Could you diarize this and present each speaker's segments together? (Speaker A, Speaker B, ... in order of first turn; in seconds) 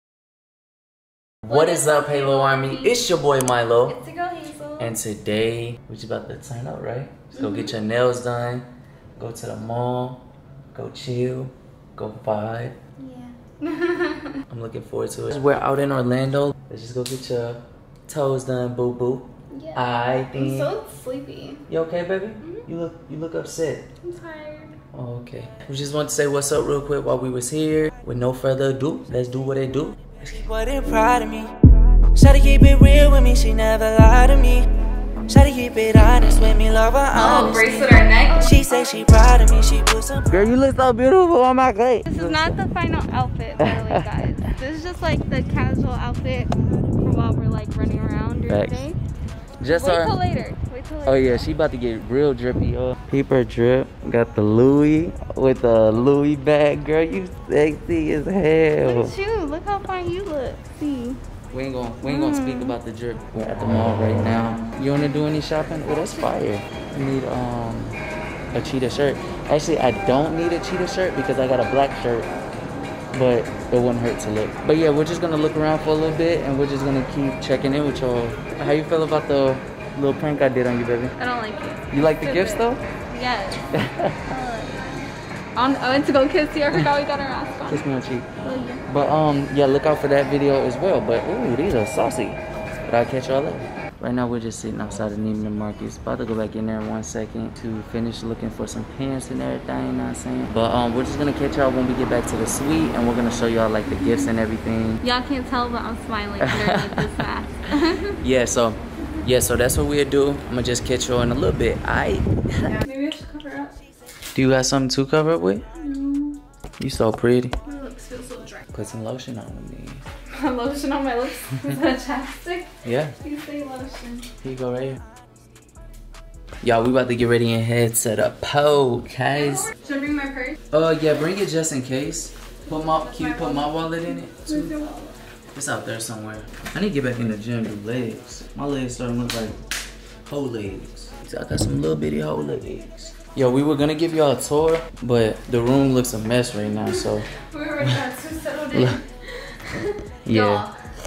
Speaker A: 1.5-4.0, 4.8-12.8, 14.5-20.7, 21.7-23.9, 24.9-30.0, 40.3-42.5, 43.6-44.5, 48.5-48.9, 49.6-50.2, 51.1-59.1, 61.5-68.0, 68.5-72.3, 73.1-81.1, 81.9-82.8, 83.7-84.2, 87.7-88.3, 88.9-105.0, 106.4-107.3, 108.2-112.7, 114.3-115.7, 116.8-117.5, 118.7-120.0, 122.8-123.1, 124.4-125.0, 126.6-129.7, 130.7-134.7, 135.5-139.6, 140.3-147.3, 148.7-149.0, 150.2-150.7
Speaker B: 1.5-3.1, 3.8-5.0, 7.3-7.8, 13.0-14.4, 19.5-21.6, 22.4-22.7, 24.0-24.8, 37.1-38.5, 42.1-49.0, 49.7-51.5, 58.8-61.2, 62.0-62.8, 65.8-66.3, 81.2-83.7, 84.3-88.8, 103.9-104.3, 105.0-108.3, 112.6-113.8, 115.8-116.4, 117.6-118.7, 120.3-124.3, 129.3-130.6, 132.7-135.2, 146.7-149.0, 149.7-150.7
Speaker C: 30.2-31.5, 32.1-34.7, 35.3-37.7, 38.4-40.6